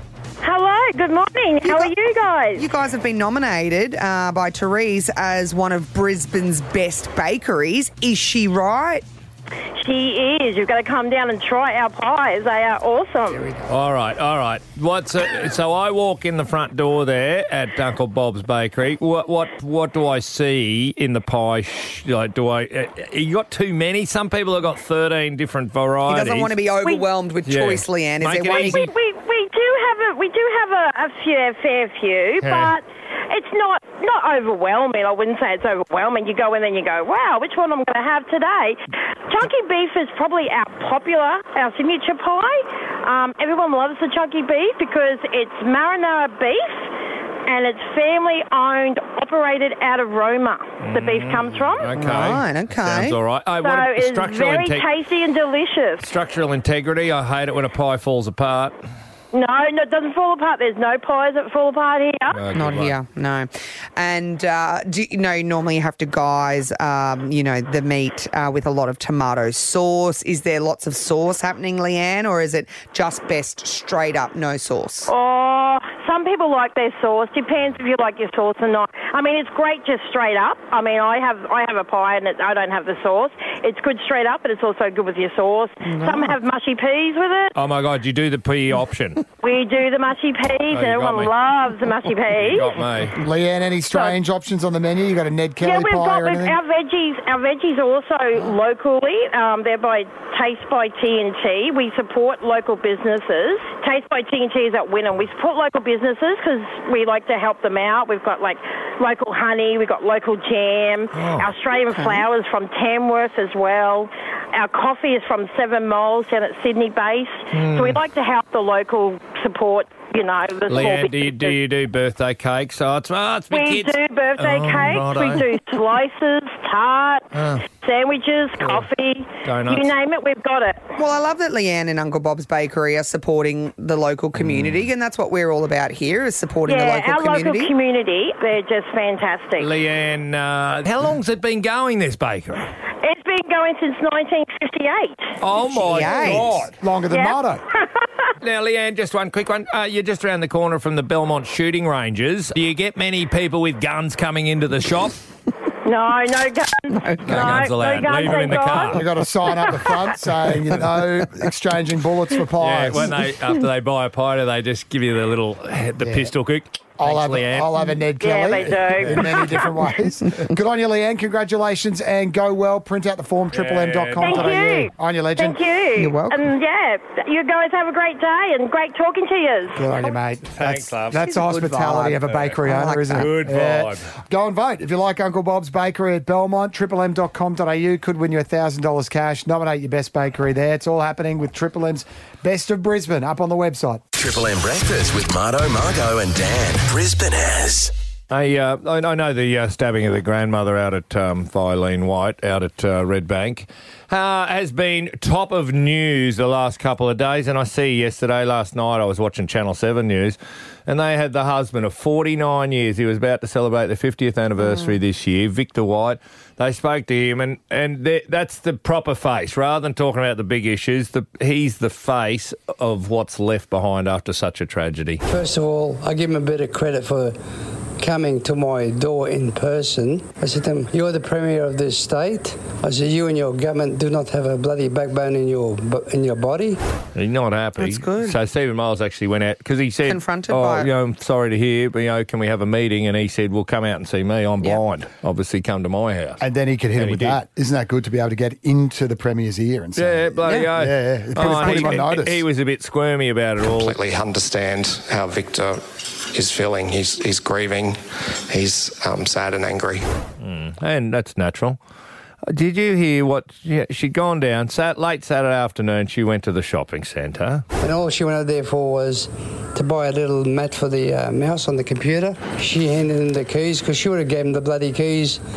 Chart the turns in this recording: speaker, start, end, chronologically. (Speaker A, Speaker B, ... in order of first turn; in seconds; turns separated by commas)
Speaker A: 0.4-2.6, Speaker B: 1.6-1.9, Speaker B: 2.5-9.0, Speaker A: 9.8-13.5, Speaker C: 13.3-13.6, Speaker D: 13.7-26.6, Speaker B: 26.1-28.9, Speaker D: 27.4-28.9, Speaker A: 28.5-46.9, Speaker D: 32.4-32.8, Speaker A: 47.5-51.9, Speaker D: 50.8-54.9, Speaker B: 51.9-53.1, Speaker A: 53.6-56.0, Speaker D: 56.0-58.8, Speaker A: 59.3-62.4, Speaker D: 62.3-62.9, Speaker B: 62.5-75.1, Speaker A: 75.1-87.5, Speaker B: 85.8-86.3, Speaker D: 87.5-89.2, Speaker A: 89.4-92.8, Speaker D: 90.7-91.3, Speaker D: 92.3-93.2, Speaker C: 93.2-96.6, Speaker A: 95.6-121.6, Speaker D: 111.1-111.5, Speaker B: 111.9-112.2, Speaker D: 117.5-118.0, Speaker D: 120.7-125.5, Speaker A: 123.5-127.2, Speaker D: 127.3-127.6, Speaker A: 127.8-130.8, Speaker D: 128.6-128.9, Speaker D: 129.4-129.9, Speaker B: 131.0-137.7, Speaker D: 134.3-134.9, Speaker A: 136.7-139.7, Speaker D: 139.6-142.7, Speaker A: 143.0-145.3, Speaker D: 145.4-146.7, Speaker B: 145.7-146.6, Speaker C: 146.2-147.6, Speaker A: 147.1-147.4, Speaker D: 148.4-155.2, Speaker A: 155.8-159.0, Speaker D: 157.2-159.0, Speaker C: 158.9-163.2, Speaker D: 162.6-167.8, Speaker C: 166.0-166.3, Speaker C: 167.0-175.6, Speaker A: 168.2-169.7, Speaker D: 169.0-169.3, Speaker D: 173.5-174.6, Speaker A: 174.2-179.8, Speaker B: 176.0-176.4, Speaker C: 179.7-194.0, Speaker D: 180.6-181.2, Speaker B: 181.1-183.3, Speaker D: 182.3-182.6, Speaker D: 183.1-184.0, Speaker E: 194.1-197.9, Speaker D: 198.3-225.2, Speaker F: 225.2-227.4, Speaker F: 228.0-236.8, Speaker D: 237.1-246.4, Speaker B: 237.8-238.3, Speaker B: 240.1-240.9, Speaker C: 246.4-252.4, Speaker D: 247.0-247.4, Speaker D: 249.9-254.0, Speaker B: 251.4-251.9, Speaker G: 253.6-260.0, Speaker D: 260.4-261.8, Speaker D: 262.5-267.6, Speaker F: 267.8-275.4